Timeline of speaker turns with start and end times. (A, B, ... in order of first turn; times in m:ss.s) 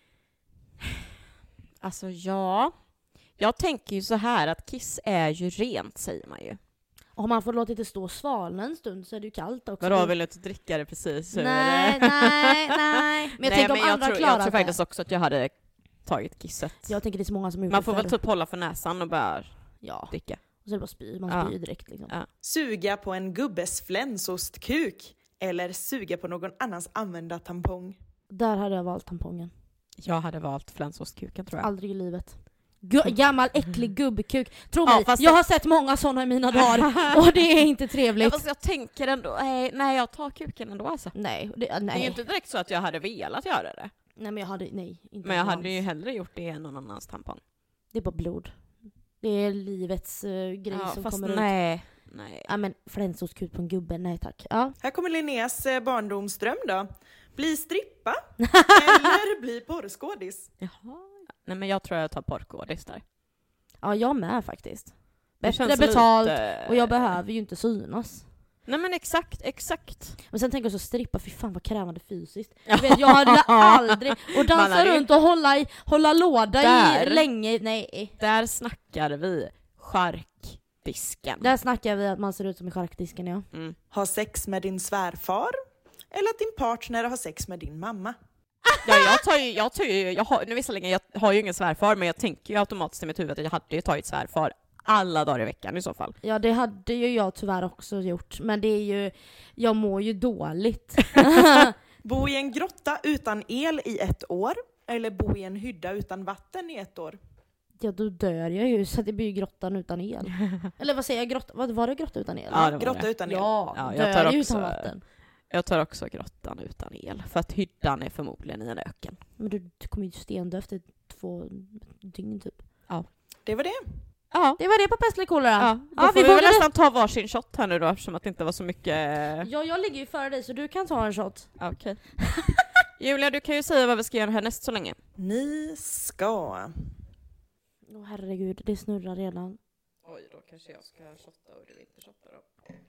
0:01.8-0:02.7 A
0:03.4-0:06.6 A
0:07.2-0:10.1 B
0:09.8-0:15.5 A
0:11.3-0:14.8 B
0:16.0-0:16.9 A
0:16.9-0:18.2 B
0:17.7-0:19.5 A
0:19.8-0:22.1 B
0:20.1-0:20.4 A
0:21.3-0:21.5 A
0:22.4-0:28.0 C
0:28.3-0:29.5 B
0:30.0-0:31.7 A
0:31.6-0:38.4 B
0:34.8-0:35.4 A
0:36.5-0:37.4 A
0:38.2-0:41.1 A
0:41.1-0:42.2 B
0:41.9-0:43.9 A
0:44.2-0:45.8 B
0:45.2-0:47.4 A
0:47.9-0:48.5 B
0:49.2-0:51.5 B
0:50.7-0:52.5 A
0:52.5-0:54.7 B
0:54.8-1:00.5 C
0:58.4-0:59.1 B
1:00.6-1:03.0 A
1:03.8-1:08.2 B
1:05.4-1:07.1 A
1:08.6-1:10.2 A
1:10.3-1:18.1 B
1:12.7-1:15.1 A
1:16.6-1:17.2 A
1:18.2-1:21.4 A
1:21.4-1:23.4 B
1:23.5-1:23.8 A
1:23.9-1:25.6 C
1:26.1-1:28.2 C
1:28.8-1:36.2 A
1:36.2-1:41.7 B
1:42.0-1:47.2 C
1:47.8-1:55.0 B
1:52.5-1:53.2 A
1:52.5-1:53.5 C
1:53.7-1:54.9 A
1:55.5-1:59.2 A
1:59.4-2:02.6 B
2:03.4-2:03.8 C
2:04.3-2:04.6 A
2:04.6-2:06.6 B
2:05.6-2:09.5 A
2:09.4-2:11.5 B
2:11.6-2:12.0 A
2:12.2-2:12.5 B
2:13.0-2:15.0 A
2:15.2-2:16.7 C
2:17.9-2:19.6 B
2:20.0-2:22.4 A